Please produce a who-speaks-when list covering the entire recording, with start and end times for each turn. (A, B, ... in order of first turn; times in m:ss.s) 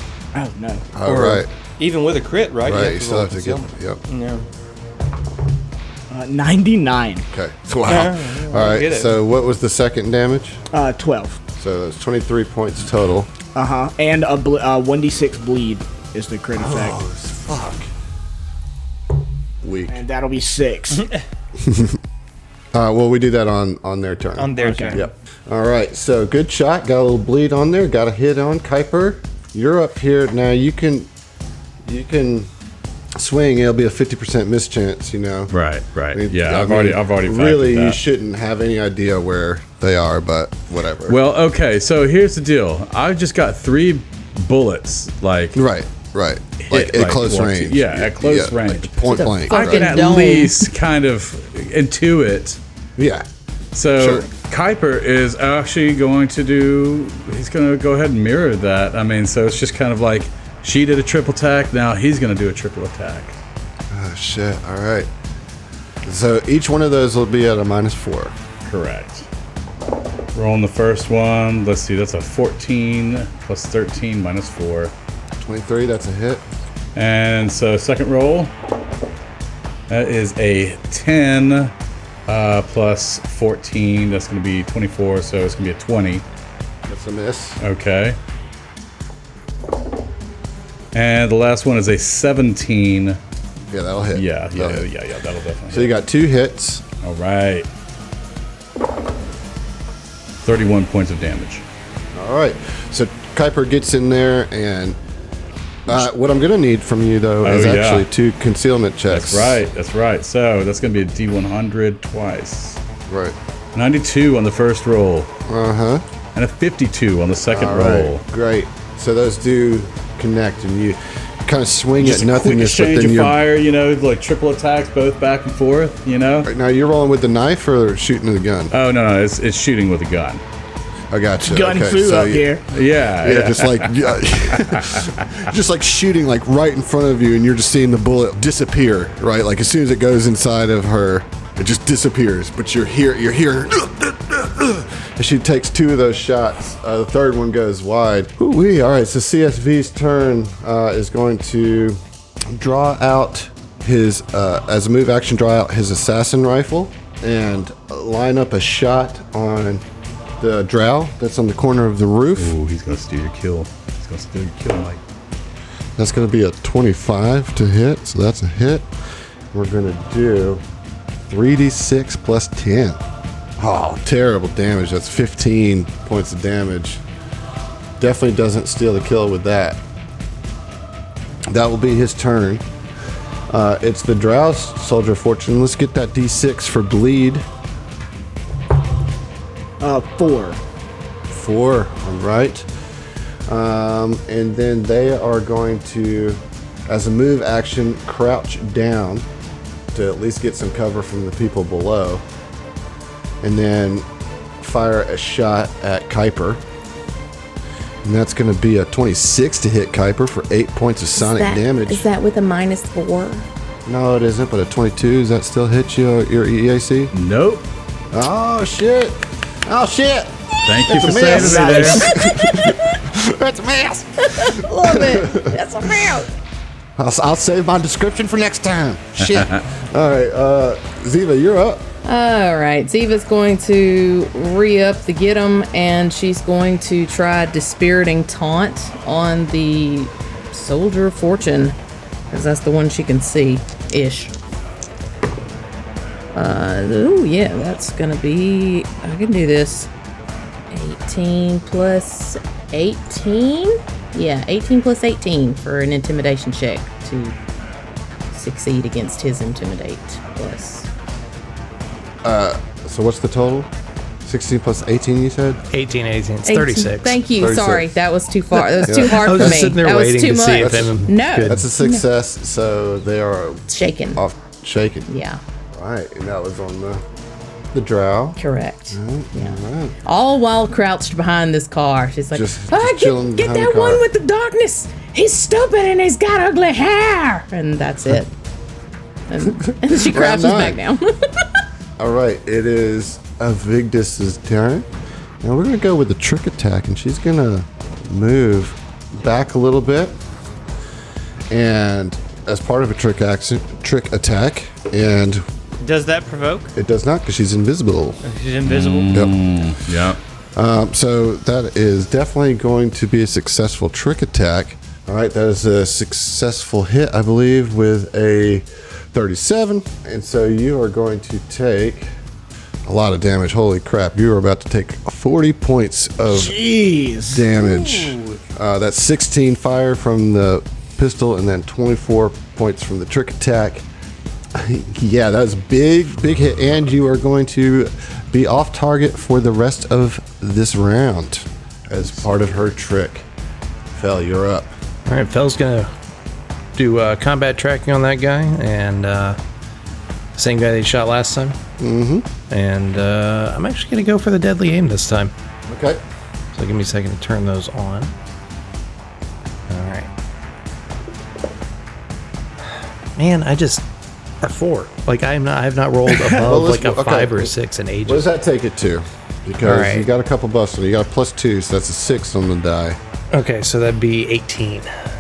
0:00.3-0:00.9 A
0:00.9-0:01.5 B
0:01.0-0:04.4 C
0:02.6-0:04.0 B
0:06.1-0:07.2 A
0:07.3-0:10.6 B
0:07.9-0:09.2 C
0:10.7-0:11.4 A
0:11.6-0:13.3 B
0:13.5-0:17.0 A
0:16.6-0:17.9 B
0:19.6-0:20.0 B
0:19.9-0:21.0 A
0:21.6-0:22.0 B
0:22.7-0:31.1 B
0:24.4-0:25.1 C
0:24.6-0:25.0 A
0:31.8-0:32.5 B
0:33.2-0:35.5 B
0:35.5-0:38.0 D
0:36.1-0:41.2 B
0:41.1-0:45.6 D
0:45.5-0:50.1 B
0:46.6-0:52.6 D
0:49.1-0:50.7 E
0:53.0-0:53.2 B
0:53.7-1:03.3 D
0:54.0-0:54.3 B
1:03.9-1:05.1 B
1:06.0-1:08.3 B
1:08.6-1:09.2 D
1:10.3-1:14.9 D
1:15.4-1:16.4 B
1:16.9-1:18.5 D
1:19.9-1:21.7 D
1:22.3-1:26.2 D
1:26.9-1:27.6 B
1:27.6-1:28.2 D
1:30.9-1:33.2 D
1:33.7-1:34.8 B
1:34.1-1:35.9 D
1:35.7-1:36.8 B
1:37.0-1:37.7 D
1:40.4-1:41.6 D
1:42.1-1:45.0 B
1:45.9-1:49.6 B
1:47.4-1:48.1 D
1:49.1-1:52.8 D
1:53.1-1:53.4 B
1:53.7-1:55.3 D
1:55.5-1:56.0 B
1:56.3-1:58.2 D
1:57.5-2:03.4 B
2:02.0-2:06.5 D
2:06.4-2:08.7 B
2:08.7-2:10.4 D
2:11.1-2:12.6 B
2:11.4-2:12.6 A
2:12.7-2:15.1 D
2:13.2-2:39.8 B
2:40.4-2:42.5 B
2:42.4-2:45.0 D
2:46.0-2:48.9 B
2:49.5-2:50.6 B
2:51.3-2:53.0 B
2:53.6-2:57.0 B
2:58.0-2:59.8 B
3:01.5-3:02.6 B
3:03.5-3:07.4 B
3:09.8-3:10.6 A
3:11.3-3:12.7 B
3:13.5-3:19.2 B
3:19.9-3:22.2 B
3:23.4-3:24.0 B
3:24.6-3:26.6 B
3:28.0-3:32.1 B
3:31.2-3:33.4 E
3:33.8-3:37.1 B
3:37.1-3:37.6 D
3:38.1-3:45.6 B
3:40.6-3:42.1 D
3:41.3-3:42.0 A
3:42.2-3:42.8 E
3:44.3-3:46.3 E
3:47.0-3:51.9 B
3:49.2-3:49.6 D
3:52.0-4:01.8 E
4:02.3-4:04.3 E
4:06.3-4:09.9 E
4:10.7-4:17.4 E
4:18.3-4:20.9 E
4:22.2-4:23.7 B
4:24.2-4:25.6 B
4:25.7-4:27.2 F
4:26.4-4:32.0 E
4:27.4-4:27.9 B
4:28.5-4:31.7 F
4:28.8-4:29.8 B
4:30.5-4:35.1 B
4:33.7-4:34.2 E
4:35.1-4:35.4 E
4:35.7-4:37.0 B
4:37.7-4:38.4 B
4:38.4-4:48.3 E
4:38.9-4:40.0 B
4:42.3-4:44.0 B
4:49.3-4:51.6 E
4:49.6-4:50.8 B
4:52.0-4:54.9 B
4:55.4-5:00.2 B
5:01.5-5:05.4 B
5:05.8-5:06.7 C
5:06.7-5:08.2 B
5:08.2-5:09.2 C
5:08.6-5:10.2 D
5:10.5-5:22.1 B
5:22.8-5:26.5 B
5:26.3-5:27.5 A
5:27.3-5:33.8 B
5:27.6-5:28.4 C
5:34.5-5:43.3 B
5:43.9-5:44.7 B
5:45.1-5:45.9 F
5:46.7-5:49.4 F
5:50.4-5:51.6 F
5:51.8-5:52.3 B
5:52.5-5:55.3 F
5:55.7-5:56.0 B
5:56.5-5:58.1 F
5:59.7-6:00.1 F
6:03.2-6:03.8 F
6:04.4-6:08.3 F
6:06.4-6:07.5 B
6:08.0-6:13.0 B
6:09.6-6:10.1 F
6:13.3-6:14.9 F